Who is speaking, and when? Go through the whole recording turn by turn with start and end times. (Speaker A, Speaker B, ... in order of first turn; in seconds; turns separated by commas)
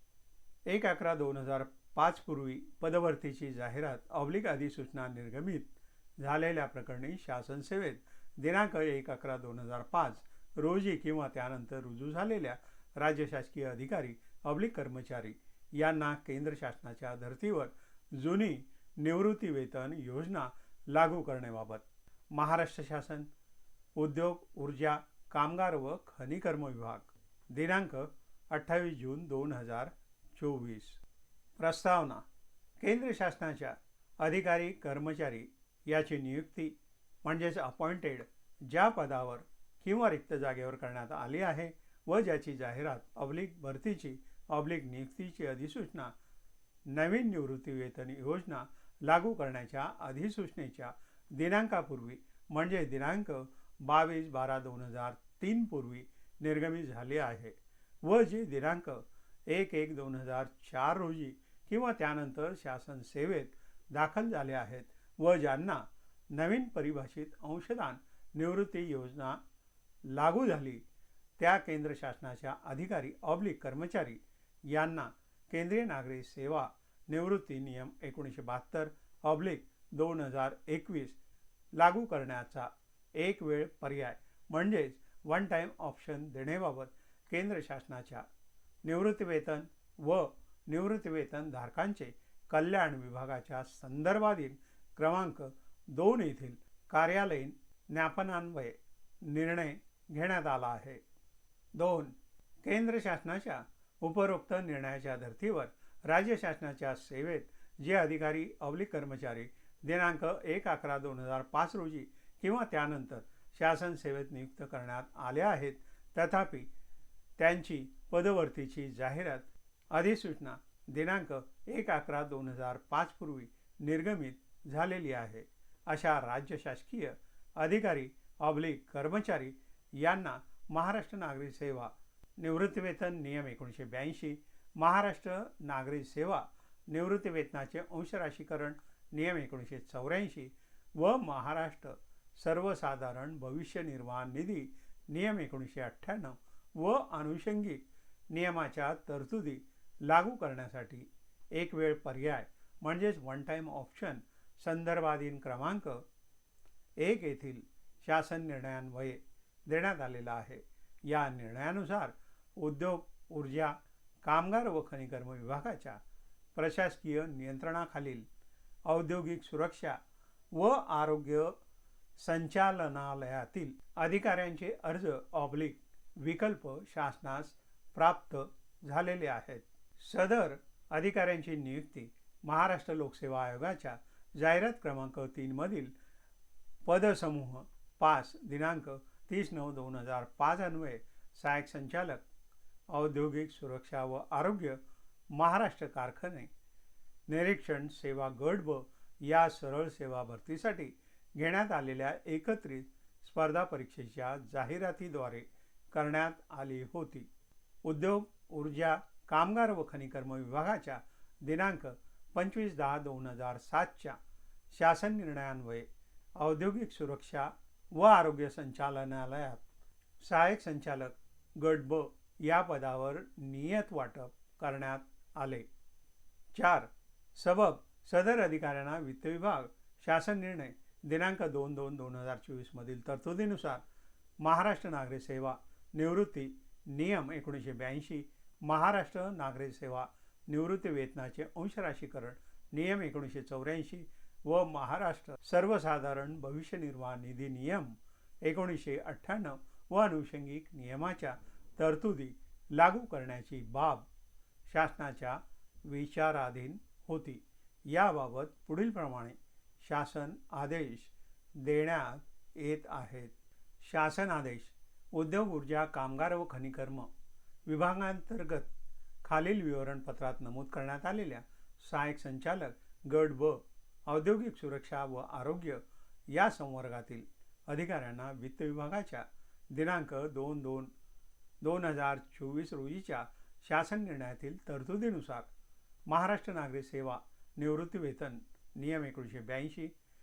Speaker A: 0.7-23.3, Speaker A: 23.9-31.0, Speaker A: 31.6-32.2, Speaker A: 32.8-46.1, Speaker A: 46.9-69.4, Speaker A: 70.1-70.8, Speaker A: 71.4-81.2, Speaker A: 81.8-88.2, Speaker A: 88.8-101.0, Speaker A: 101.7-116.7, Speaker A: 117.4-156.0, Speaker A: 157.0-166.0, Speaker A: 166.5-168.2, Speaker A: 168.9-170.0, Speaker A: 170.5-171.5, Speaker A: 172.2-185.9, Speaker A: 186.8-192.2, Speaker A: 192.9-194.8, Speaker A: 195.3-196.5, Speaker A: 197.3-207.3, Speaker A: 207.8-214.2, Speaker A: 214.7-215.9, Speaker A: 216.4-219.6, Speaker A: 220.2-225.7, Speaker A: 226.5-233.8, Speaker A: 234.4-247.9, Speaker A: 248.4-254.1, Speaker A: 254.7-267.1, Speaker A: 267.6-268.7, Speaker A: 269.2-280.9, Speaker A: 281.6-285.5, Speaker A: 286.1-289.9